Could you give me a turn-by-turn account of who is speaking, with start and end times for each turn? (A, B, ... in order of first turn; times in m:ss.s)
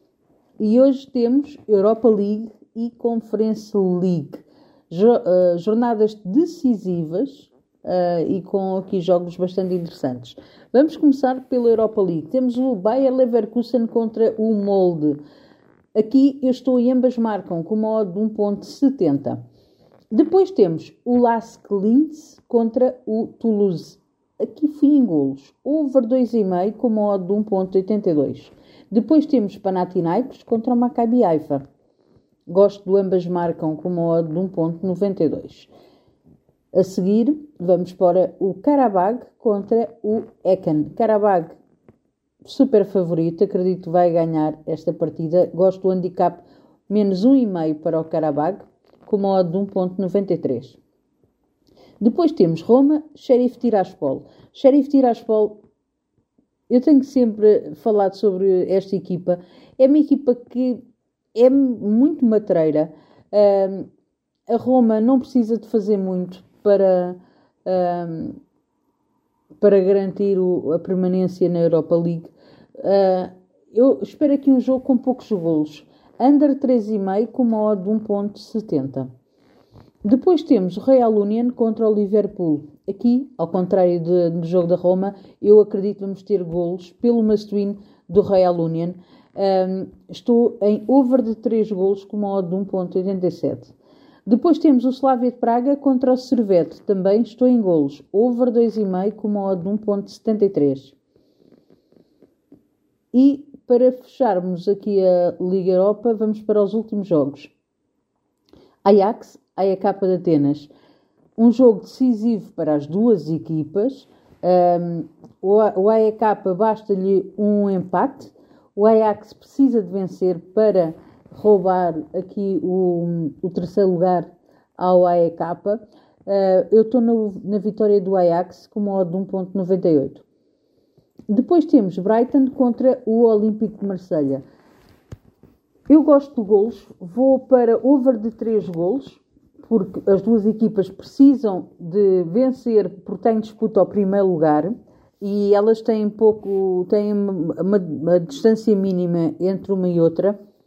0:00.6-0:15.2 A
0:16.0-0:19.4 A
0:20.1-0:31.6 A
0:32.5-0:35.7 A
0:36.7-0:41.6 A
0:42.4-0:50.8 A
0:52.0-0:55.6 A
0:56.7-1:03.9 A
1:04.5-1:08.4 A
1:09.6-1:19.1 A
1:20.0-1:33.7 A
1:34.3-1:41.0 A
1:43.1-1:47.5 A
1:48.8-1:50.7 A
1:51.4-2:10.2 A
2:11.3-2:14.4 A
2:15.9-2:30.4 A